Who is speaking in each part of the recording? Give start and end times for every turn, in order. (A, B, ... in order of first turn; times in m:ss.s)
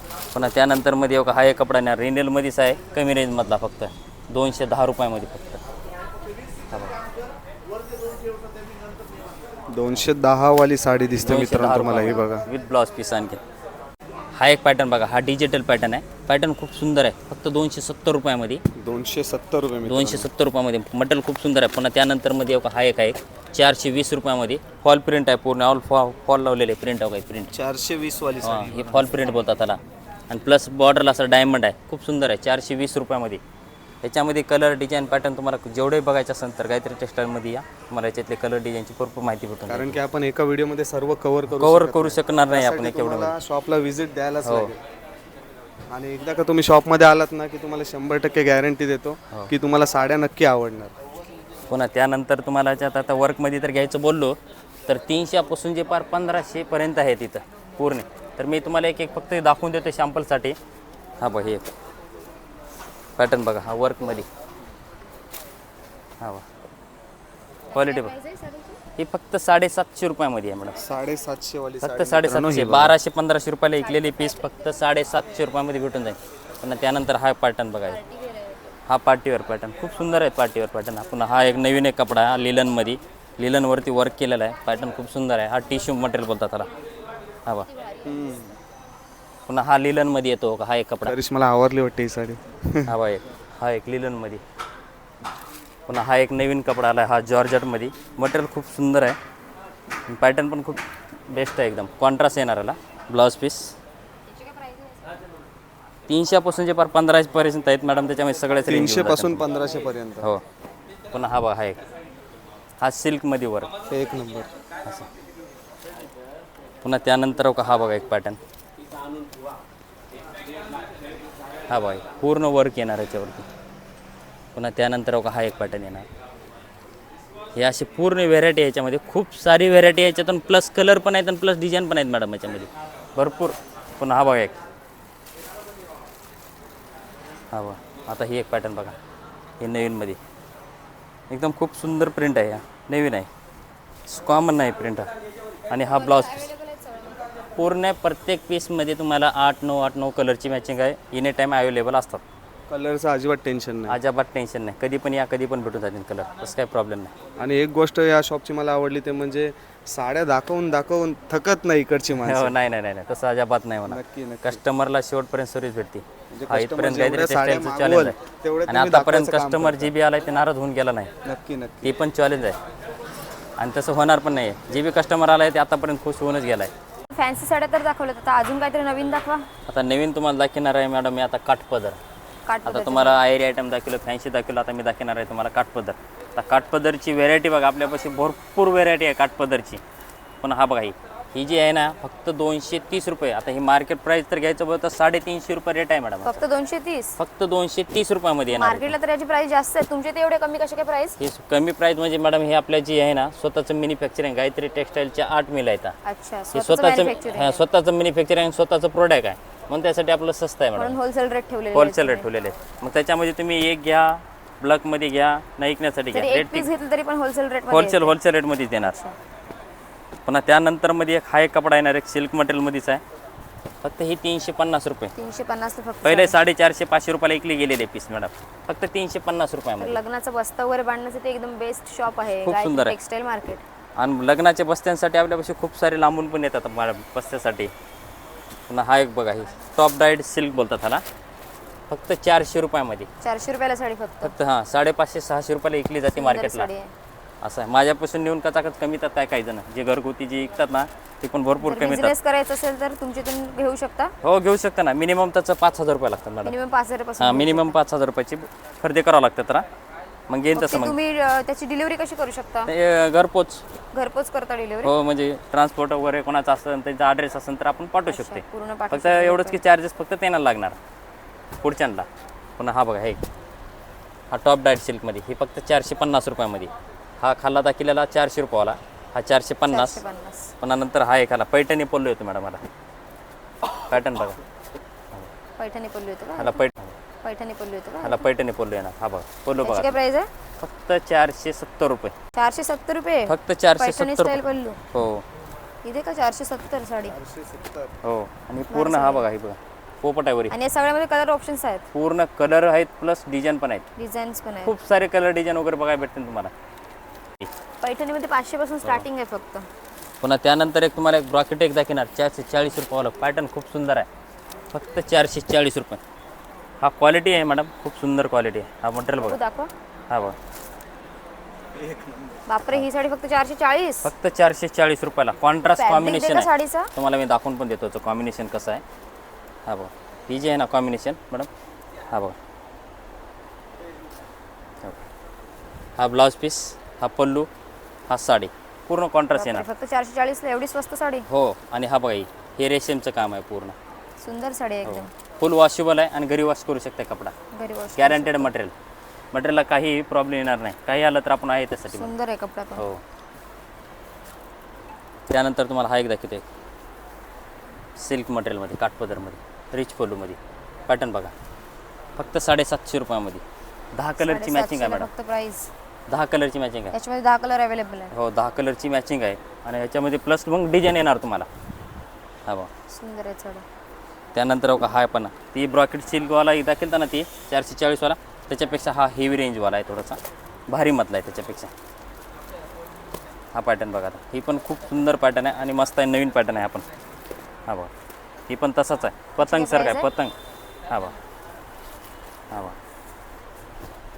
0:00.3-0:05.6 A
0:06.7-0:07.0 A
0:09.7-0:12.4 B
0:11.2-0:13.4 A
0:14.4-0:18.6 A
0:18.8-0:20.3 B
0:19.8-0:27.5 A
0:27.5-0:29.1 B
0:28.4-0:33.4 A
0:34.0-0:40.0 A
0:39.7-0:44.8 B
0:41.5-0:43.4 A
0:44.4-0:44.7 A
0:45.9-0:50.9 B
0:51.7-1:00.6 A
1:01.2-1:01.7 A
1:03.2-1:04.3 A
1:07.7-1:08.8 C
1:07.7-1:08.1 A
1:09.0-1:10.8 A
1:10.8-1:13.0 B
1:11.8-1:18.0 A
1:13.8-1:14.8 C
1:17.9-1:18.8 C
1:18.9-1:26.7 A
1:27.7-1:28.6 C
1:28.0-1:28.5 B
1:29.5-1:31.2 A
1:31.0-1:32.9 B
1:32.9-1:34.4 A
1:35.9-1:39.2 A
1:40.1-1:43.7 A
1:44.3-1:45.2 C
1:46.1-1:49.4 A
1:48.6-1:50.3 B
1:51.1-1:51.8 A
1:52.8-1:53.7 A
1:53.9-1:54.5 B
1:56.8-1:58.4 A
2:01.7-2:03.4 A
2:04.5-2:06.0 A
2:07.6-2:14.6 A
2:17.5-2:19.0 A
2:19.6-2:20.2 A
2:21.3-2:23.3 A
2:24.1-2:25.1 A
2:25.7-2:26.5 A
2:25.8-2:27.5 C
2:27.6-2:32.2 A
2:32.7-2:34.0 B
2:33.9-2:37.1 A
2:37.4-2:42.5 B
2:42.2-2:48.2 A
2:43.9-2:44.6 B
2:46.3-2:49.9 B
2:48.7-2:51.1 A
2:51.2-2:51.9 B
2:51.8-2:52.6 A
2:53.6-2:56.7 A
2:57.1-2:59.5 C
2:59.7-3:02.0 A
3:02.4-3:03.2 C
3:02.6-3:09.8 A
3:10.4-3:16.4 A
3:16.2-3:17.2 C
3:17.2-3:18.9 A
3:18.5-3:21.2 C
3:21.2-3:26.0 A
3:26.0-3:27.6 C
3:26.5-3:31.0 A
3:30.8-3:32.3 C
3:31.7-3:36.7 A
3:36.1-3:38.2 C
3:37.7-3:39.0 A
3:38.8-3:39.2 C
3:40.2-3:43.0 A
3:43.8-3:45.1 A
3:45.2-3:46.3 C
3:46.0-3:50.0 A
3:49.8-3:53.6 C
3:52.4-3:53.0 A
3:54.0-3:57.7 A
3:58.7-4:01.0 A
4:01.9-4:03.1 A
4:03.2-4:04.3 C
4:04.2-4:06.7 A
4:06.1-4:06.9 C
4:07.4-4:12.1 A
4:11.6-4:14.1 C
4:14.2-4:16.5 A
4:16.4-4:17.8 C
4:17.2-4:19.6 A
4:20.3-4:21.0 A
4:20.5-4:22.7 C
4:22.7-4:23.6 A
4:23.9-4:24.9 C
4:24.8-4:30.8 A
4:28.1-4:29.6 C
4:31.6-4:33.2 A
4:34.3-4:40.0 A
4:39.7-4:40.5 C
4:40.6-4:42.6 A
4:43.9-4:44.4 A
4:45.6-4:46.6 C
4:46.4-4:46.9 A
4:47.2-4:48.2 C
4:48.0-4:50.0 A
4:49.6-4:50.3 C
4:50.6-4:52.1 A
4:52.3-4:54.8 C
4:53.3-4:54.4 A
4:54.9-4:55.2 A
4:55.8-4:57.2 C
4:57.1-4:58.0 B
4:58.0-5:00.5 A
4:58.7-4:59.2 C
5:00.5-5:01.8 C
5:01.9-5:03.9 A
5:04.0-5:04.7 C
5:04.6-5:06.5 A
5:07.8-5:09.7 C
5:10.2-5:14.1 A
5:14.7-5:16.0 A
5:16.8-5:19.4 A
5:19.2-5:19.7 C
5:20.1-5:20.4 A
5:21.8-5:22.4 B
5:22.5-5:24.1 C
5:24.0-5:28.8 A
5:25.8-5:26.9 C
5:29.6-5:31.5 A
5:36.0-5:37.5 A
5:38.1-5:39.6 A
5:39.3-5:41.3 C
5:41.3-5:43.8 A
5:44.2-5:45.1 C
5:44.8-5:47.3 A
5:47.5-5:48.5 C
5:48.0-5:48.7 A
5:49.3-5:52.1 A
5:51.9-5:52.8 C
5:52.8-5:53.0 A
5:55.3-5:56.4 A
5:58.0-6:01.3 A
6:02.2-6:05.1 A
6:04.2-6:05.7 C
6:06.1-6:07.0 A
6:06.9-6:08.1 C
6:08.1-6:11.5 A
6:12.9-6:13.6 C
6:14.3-6:21.7 A
6:23.5-6:26.8 A
6:28.5-6:30.3 A
6:29.4-6:30.1 C
6:30.9-6:31.1 A
6:32.5-6:32.8 A